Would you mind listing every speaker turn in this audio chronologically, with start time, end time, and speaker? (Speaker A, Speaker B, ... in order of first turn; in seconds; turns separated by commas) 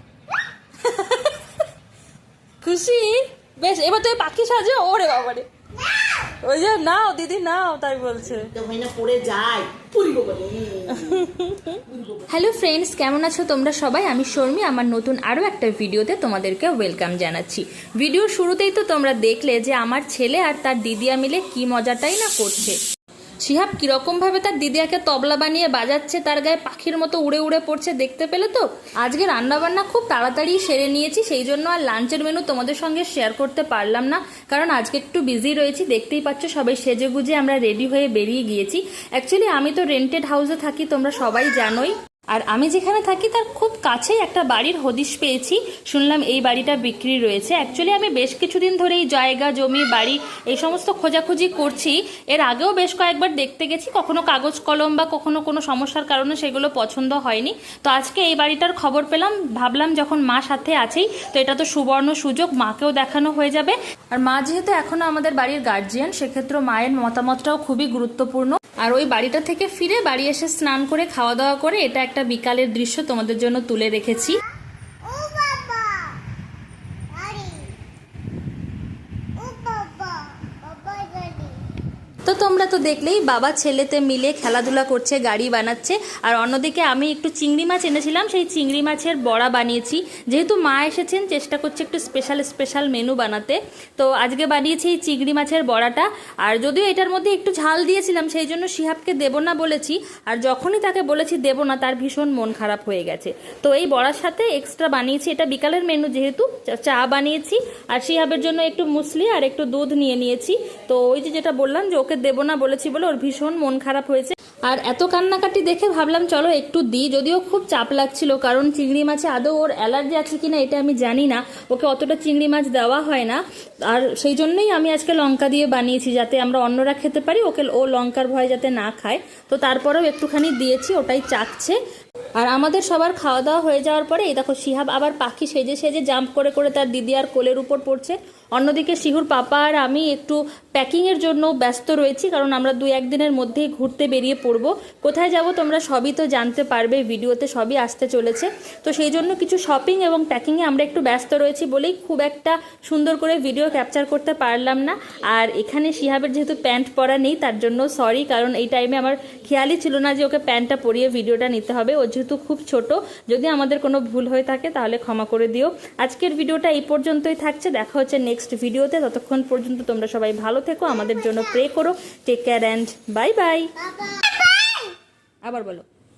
Speaker A: 0.8-1.6, Speaker A: 2.6-8.5, Speaker B: 8.5-11.0, Speaker A: 10.9-22.8, Speaker A: 23.4-74.4, Speaker C: 75.0-76.3, Speaker C: 77.1-77.8, Speaker C: 79.4-81.7, Speaker A: 82.2-131.8, Speaker A: 132.4-173.7, Speaker C: 173.8-174.9, Speaker A: 175.4-175.9